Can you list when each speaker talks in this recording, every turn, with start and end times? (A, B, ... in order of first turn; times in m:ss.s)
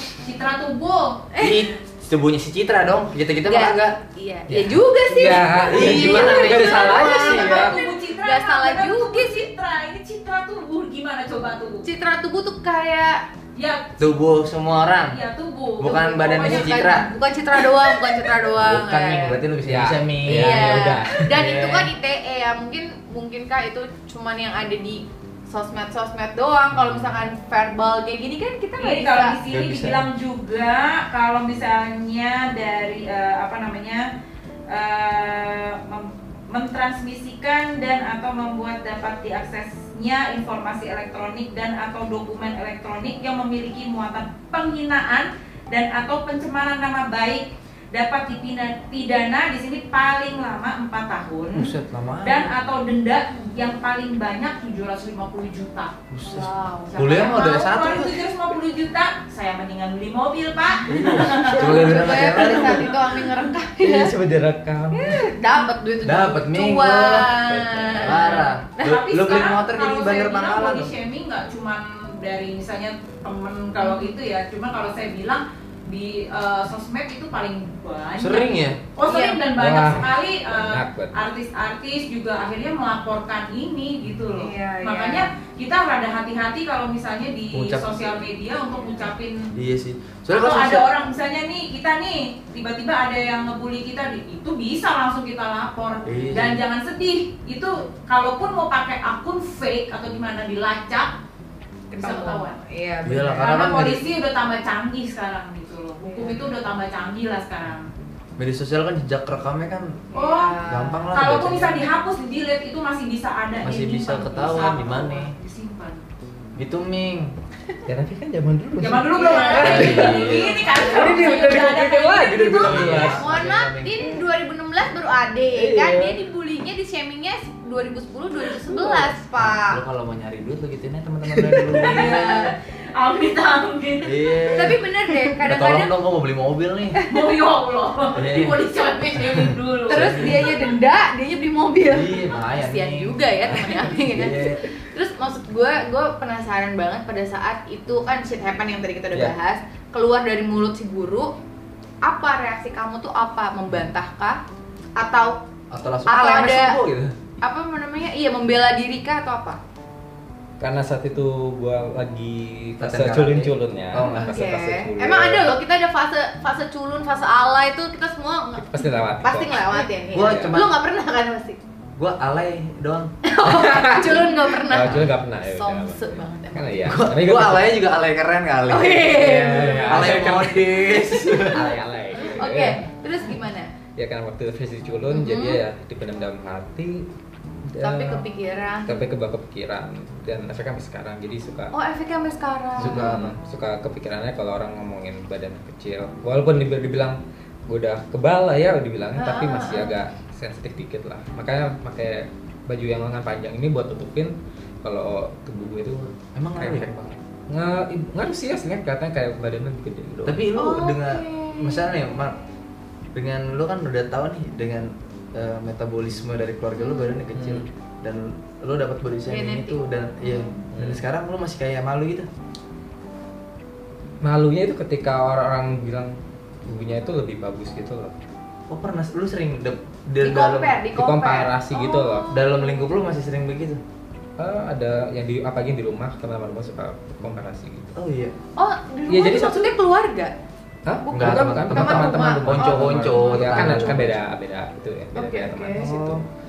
0:00.2-0:01.2 A
0:01.3-0:01.7 B
0:01.4-0:04.0 C
0:03.5-0:09.4 B
0:04.5-0:07.7 D
0:05.4-0:07.7 C
0:07.0-0:11.9 A
0:11.8-0:13.3 B
0:13.6-0:14.2 A
0:14.0-0:15.2 C
0:15.0-0:17.0 A
0:15.8-0:17.1 C
0:16.4-0:19.4 B
0:18.5-0:21.9 C
0:19.6-0:21.3 D
0:20.2-0:29.4 B
0:28.8-0:34.1 A
0:29.5-0:30.1 C
0:34.7-0:55.9 A
0:51.5-0:52.5 C
0:56.1-0:58.3 C
0:56.3-0:57.2 B
0:56.9-1:02.7 A
1:00.9-1:02.9 C
1:00.9-1:04.1 B
1:03.8-1:05.3 D
1:04.9-1:08.6 B
1:06.0-1:07.4 C
1:07.3-1:08.3 D
1:08.0-1:10.9 C
1:08.7-1:29.4 A
1:13.8-1:14.1 B
1:18.2-1:18.8 C
1:19.0-1:19.4 B
1:19.5-1:21.1 D
1:24.4-1:25.3 B
1:27.5-1:28.2 C
1:29.6-1:30.9 C
1:30.3-1:41.1 A
1:36.0-1:36.6 C
1:41.9-1:43.7 B
1:42.0-1:42.6 A
1:43.1-1:44.0 C
1:43.4-1:47.9 A
1:46.0-1:46.5 B
1:48.4-1:50.0 C
1:50.1-1:51.1 B
1:50.1-1:56.0 A
1:50.7-1:51.8 C
1:53.6-1:55.3 C
1:56.6-1:57.3 C
1:57.9-2:03.2 D
1:58.8-2:02.8 A
1:59.1-2:09.8 B
1:59.3-2:00.5 C
2:02.6-2:04.1 C
2:05.5-2:06.2 D
2:08.8-2:09.0 D
2:09.4-2:12.4 C
2:11.7-2:14.3 A
2:11.8-2:12.5 B
2:14.0-2:14.8 C
2:14.5-2:15.9 B
2:15.4-2:17.0 C
2:17.0-2:20.5 A
2:18.2-2:18.6 C
2:19.2-2:20.5 C
2:19.9-2:31.3 B
2:21.9-2:24.6 C
2:32.0-2:34.4 B
2:35.0-2:35.4 B
2:35.7-2:37.2 C
2:36.1-2:36.8 B
2:37.4-2:39.6 B
2:40.6-2:45.6 D
2:42.8-2:44.3 C
2:44.0-2:51.6 B
2:48.6-2:50.6 D
2:50.1-2:50.8 C
2:52.0-2:53.1 C
2:53.2-2:57.0 B
2:53.4-2:57.8 D
2:53.7-2:54.0 C
2:54.8-2:55.1 C
2:56.8-2:59.4 C
2:58.7-3:03.7 B
2:59.0-3:02.8 D
2:59.9-3:01.8 C
3:04.0-3:07.1 D
3:05.1-3:05.6 B
3:07.7-3:08.2 D
3:07.8-3:09.0 B
3:08.8-3:11.7 D
3:11.7-3:13.3 B
3:12.8-3:30.5 D
3:12.8-3:13.4 C
3:19.2-3:19.9 B
3:26.4-3:26.9 C
3:30.2-3:32.4 C
3:30.5-3:32.0 B
3:33.1-3:42.3 C
3:36.8-3:37.2 B
3:37.3-3:37.7 D
3:39.3-3:40.6 B
3:40.7-3:41.0 D
3:44.2-3:48.2 D
3:48.7-3:50.8 C
3:50.2-3:52.9 B
3:50.9-3:52.4 D
3:52.3-3:53.8 C
3:54.4-3:58.0 D
3:58.0-3:58.4 C
3:58.6-4:00.3 B
3:59.1-3:59.7 D
4:00.9-4:06.3 D
4:01.0-4:04.0 B
4:01.1-4:04.2 C
4:05.2-4:05.9 B
4:05.8-4:06.2 C